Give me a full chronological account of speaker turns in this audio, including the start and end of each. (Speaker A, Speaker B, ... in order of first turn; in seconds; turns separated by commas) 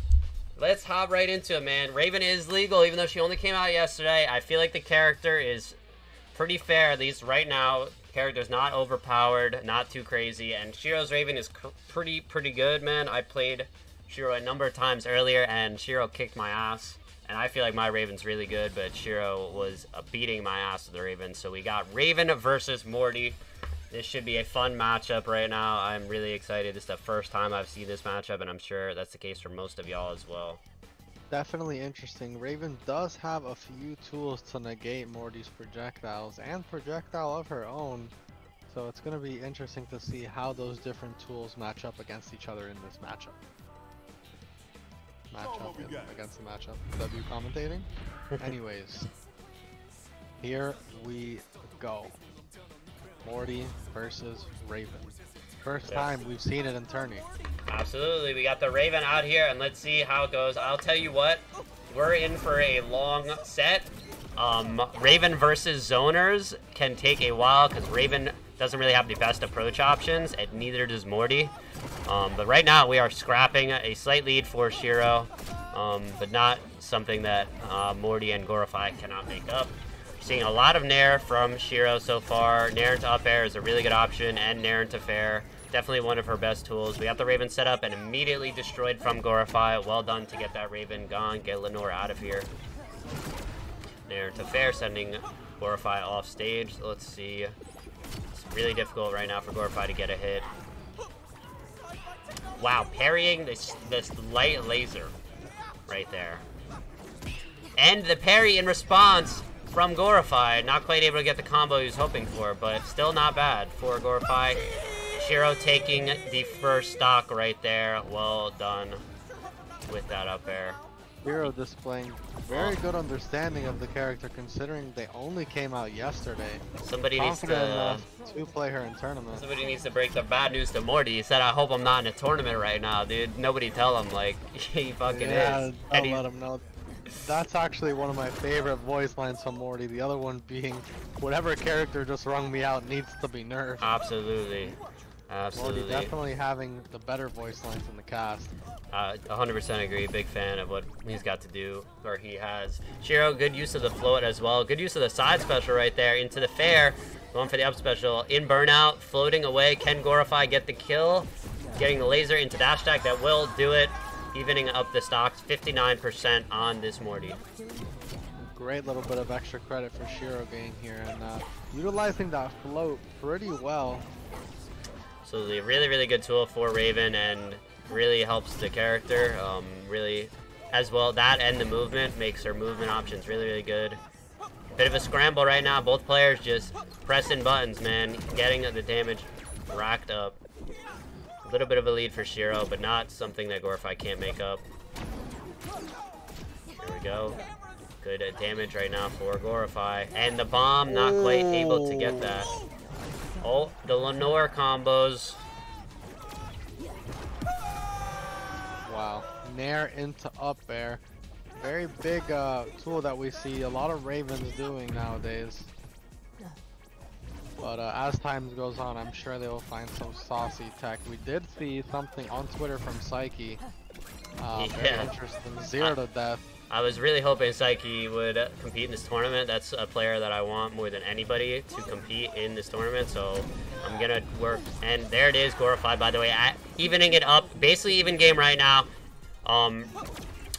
Speaker A: 0.6-5.8, Speaker A: 6.3-23.4, Speaker A: 23.9-30.6, Speaker B: 31.3-38.1, Speaker B: 38.7-43.4, Speaker B: 45.3-47.9, Speaker B: 48.4-49.1, Speaker B: 50.4-52.2, Speaker B: 53.2-55.1, Speaker B: 55.6-57.3, Speaker A: 55.9-56.1, Speaker A: 57.7-71.5, Speaker A: 72.1-92.5, Speaker A: 94.1-97.6, Speaker A: 98.3-100.5, Speaker A: 102.6-105.2, Speaker A: 105.9-106.5, Speaker A: 107.8-114.6, Speaker A: 115.2-119.0, Speaker A: 119.9-120.8, Speaker B: 121.2-126.6, Speaker A: 122.5-122.8, Speaker A: 126.8-128.1, Speaker B: 127.2-129.4, Speaker A: 129.3-136.2, Speaker B: 135.1-136.6, Speaker B: 137.2-143.8, Speaker A: 143.8-144.8, Speaker A: 145.3-146.1, Speaker B: 145.6-148.5, Speaker A: 148.9-167.4, Speaker B: 168.4-174.1, Speaker A: 175.2-184.0, Speaker A: 184.8-190.4, Speaker A: 191.4-194.6, Speaker A: 196.8-197.4, Speaker A: 198.0-202.5, Speaker A: 203.4-205.4, Speaker B: 208.9-211.0, Speaker B: 211.5-215.7, Speaker B: 217.6-223.6, Speaker B: 224.4-226.4, Speaker A: 224.5-225.1, Speaker A: 226.7-238.9, Speaker A: 239.4-239.9